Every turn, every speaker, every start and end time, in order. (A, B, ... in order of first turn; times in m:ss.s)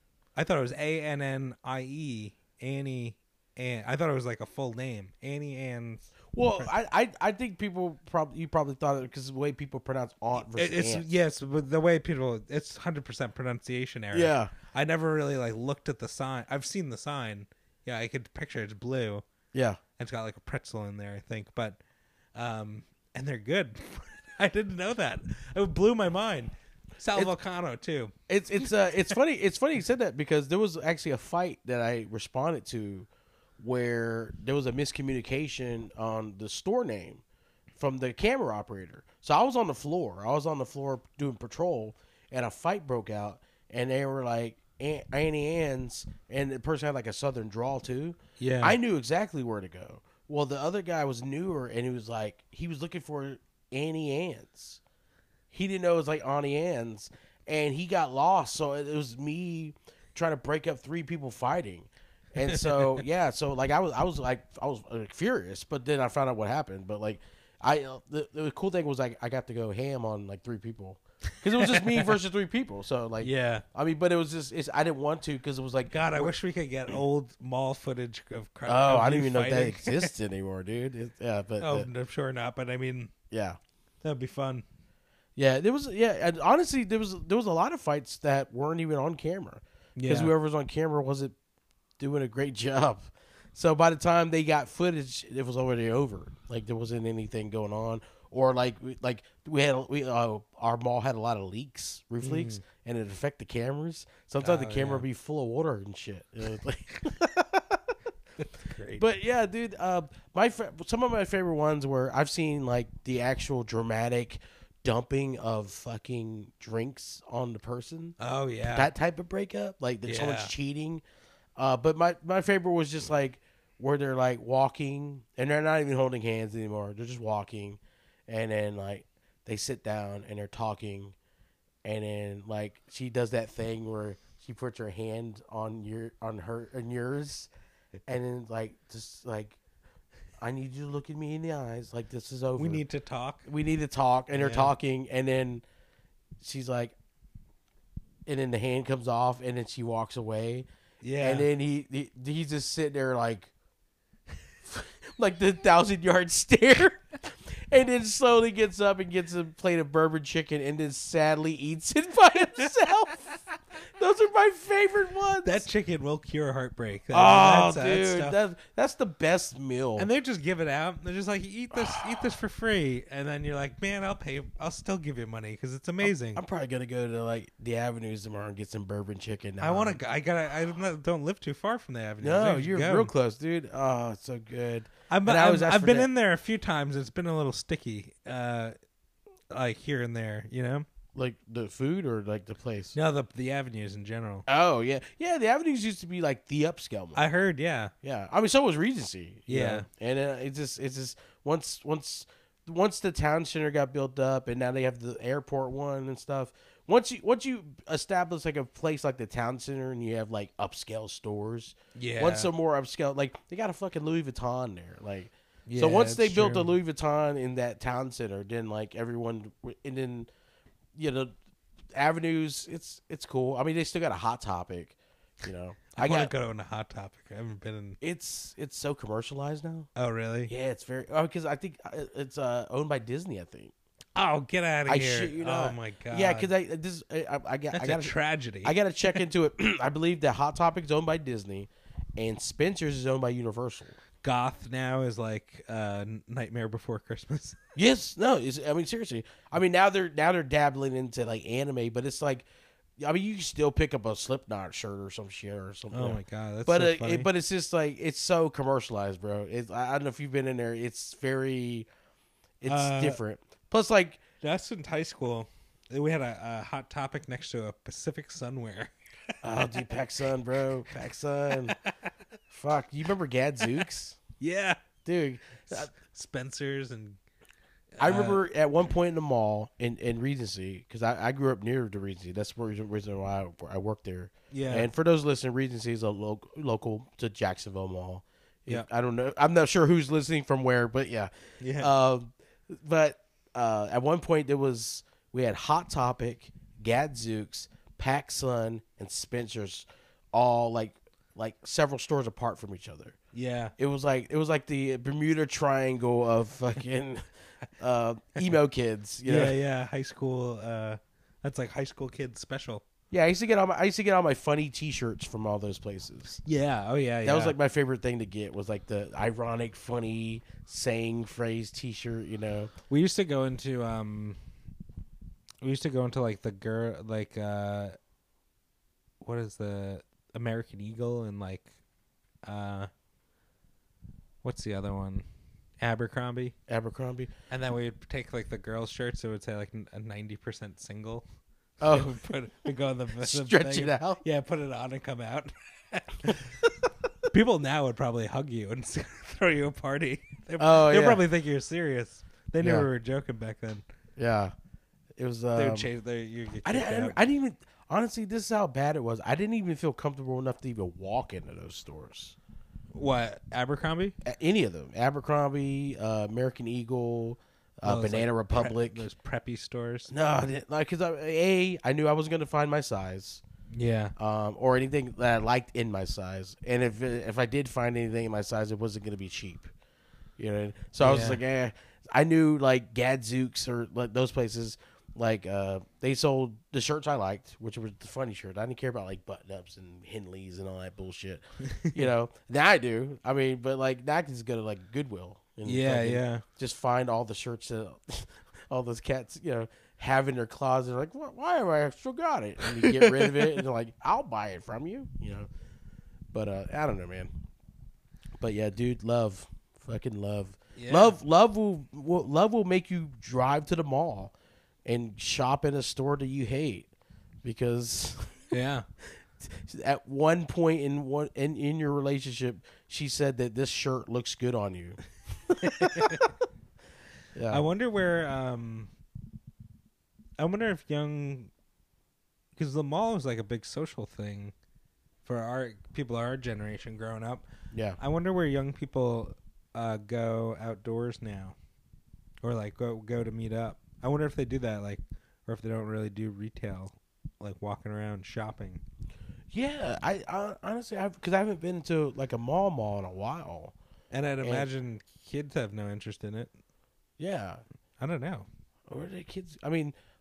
0:00.4-0:06.7 A
0:06.3-0:11.0 B
0:10.4-0:19.2 A
0:14.1-0:14.5 B
0:19.5-0:19.8 B
0:20.0-0:21.8 A
0:22.3-0:28.1 A
0:28.3-0:33.1 B
0:33.6-0:37.2 B
0:37.8-0:54.8 B
0:48.4-0:48.8 A
0:55.5-1:16.3 B
1:02.5-1:03.0 A
1:11.6-1:12.1 A
1:13.2-1:13.6 A
1:15.9-1:20.1 A
1:18.7-1:21.9 B
1:21.6-1:23.1 A
1:23.3-1:23.6 B
1:24.0-1:24.6 A
1:25.4-1:31.3 B
1:30.0-1:30.3 A
1:32.0-1:47.9 B
1:42.2-1:42.6 A
1:44.4-1:45.0 A
1:48.4-1:49.0 A
1:49.0-2:01.0 B
1:58.2-1:58.9 A
2:00.0-2:00.5 A
2:01.6-2:11.1 B
2:11.8-2:17.5 B
2:18.1-2:19.6 B
2:20.4-2:22.8 B
2:22.6-2:23.4 A
2:23.4-2:25.6 B
2:24.3-2:24.7 A
2:26.4-2:26.9 B
2:28.2-2:30.7 B
2:31.0-2:31.5 A
2:31.2-2:33.5 B
2:34.6-2:45.6 B
2:45.4-2:48.3 A
2:47.1-2:50.1 B
2:50.0-2:56.4 A
2:56.0-3:00.0 B
2:59.6-3:03.1 A
3:02.2-3:06.1 B
3:05.1-3:08.7 A
3:09.5-3:10.8 A
3:11.1-3:12.9 B
3:12.9-3:14.4 A
3:14.5-3:17.2 B
3:17.2-3:17.9 A
3:18.0-3:40.3 B
3:19.5-3:19.9 A
3:32.0-3:32.5 A
3:35.7-3:36.7 A
3:40.9-3:41.3 B
3:41.9-3:46.3 B
3:45.9-3:48.0 A
3:48.0-3:49.9 B
3:50.0-3:50.5 A
3:50.5-3:53.7 B
3:54.2-3:56.5 A
3:54.9-4:04.0 B
3:57.7-3:59.2 A
4:04.2-4:07.6 A
4:07.7-4:12.4 B
4:13.0-4:21.9 B
4:15.9-4:17.3 A
4:22.6-4:24.2 B
4:22.7-4:23.2 A
4:24.4-4:28.9 A
4:29.4-4:31.8 B
4:29.6-4:29.8 A
4:30.9-4:32.1 A
4:32.5-4:34.2 B
4:34.4-4:34.8 A
4:35.0-4:35.9 B
4:35.7-4:37.2 A
4:38.0-4:38.4 A
4:38.0-5:03.2 B
4:44.5-4:44.9 A
4:51.6-4:51.9 A
5:03.3-5:03.7 A
5:03.8-5:07.3 B
5:07.8-5:09.6 B
5:09.2-5:12.8 A
5:13.1-5:16.4 B
5:16.4-5:17.5 A
5:17.2-5:22.7 B
5:22.9-5:24.4 A
5:25.6-5:28.0 A
5:29.2-5:31.7 A
5:32.4-5:32.9 A
5:34.4-5:35.2 A
5:35.8-5:36.5 A
5:36.7-5:37.3 B
5:37.5-5:41.2 A
5:41.8-5:42.3 B
5:41.8-5:46.6 A
5:43.2-5:44.2 B
5:47.3-5:53.8 A
5:50.6-5:51.2 B
5:52.6-5:52.9 B
5:54.2-5:54.5 B
5:55.2-5:55.9 B
5:55.6-5:57.2 A
5:56.6-6:02.4 B
6:02.9-6:04.1 A
6:04.2-6:09.0 B
6:07.8-6:10.1 A
6:10.1-6:13.4 B
6:13.7-6:14.1 A
6:14.2-6:19.7 B
6:20.4-6:45.5 B
6:21.0-6:21.4 A
6:31.6-6:32.0 A
6:35.6-6:36.4 A
6:42.6-6:43.6 A
6:46.3-6:47.3 B
6:48.4-6:54.3 B
6:50.8-6:51.2 A
6:54.8-6:56.9 B
6:57.4-6:58.3 B
6:58.5-6:58.8 A
6:59.4-7:06.3 B
7:05.6-7:06.3 A
7:07.3-7:07.6 B
7:07.5-7:08.9 A
7:10.4-7:11.5 A
7:12.6-7:14.5 A
7:15.2-7:17.4 A
7:17.7-7:18.0 B
7:18.0-7:21.6 A
7:22.4-7:28.8 A
7:29.5-7:33.7 B
7:34.1-7:36.5 A
7:37.2-7:37.6 B
7:38.0-7:38.5 A
7:38.9-7:39.9 B